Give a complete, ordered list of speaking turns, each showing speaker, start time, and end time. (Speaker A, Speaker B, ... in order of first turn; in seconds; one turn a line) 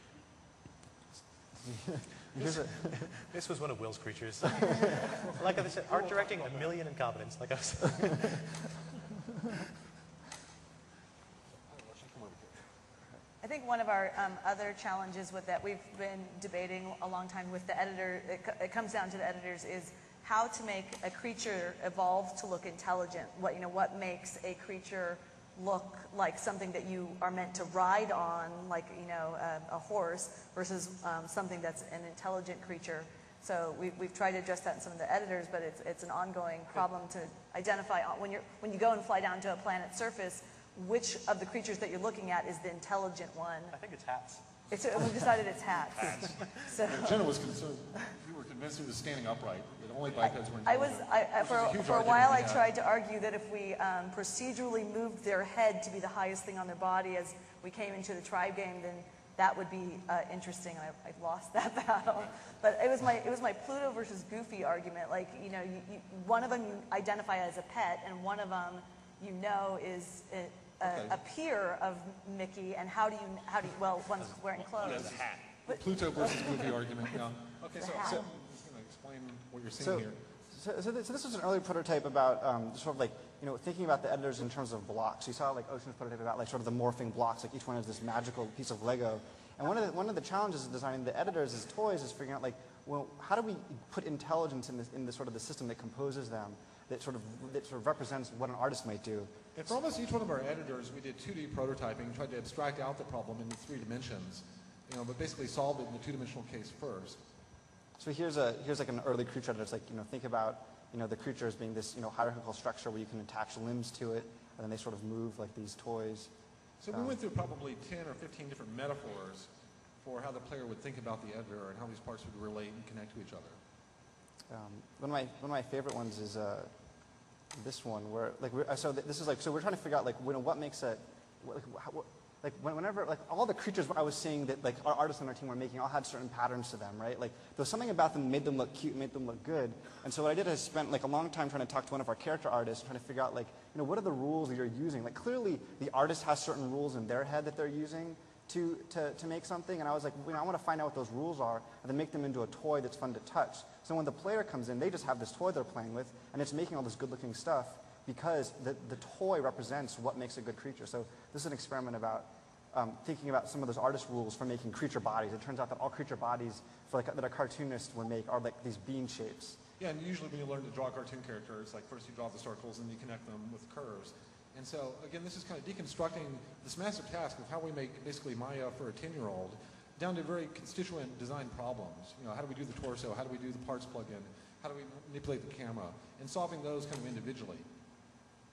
Speaker A: 1.6-3.2
Speaker B: 3.1-8.8
Speaker C: 5.8-6.7
Speaker C: 11.7-12.7
Speaker D: 13.4-43.7
Speaker B: 43.7-45.2
Speaker D: 44.7-47.3
Speaker C: 46.0-52.6
Speaker B: 46.1-46.5
Speaker D: 50.2-76.8
Speaker C: 70.8-71.2
Speaker C: 74.8-80.2
Speaker B: 74.8-75.2
Speaker D: 77.8-78.2
Speaker A: 79.8-99.4
Speaker C: 99.5-107.2
Speaker A: 108.0-116.3
Speaker C: 116.8-119.5
Speaker C: 120.0-123.6
Speaker A: 124.5-126.7
Speaker A: 127.5-169.6
Speaker C: 169.8-187.7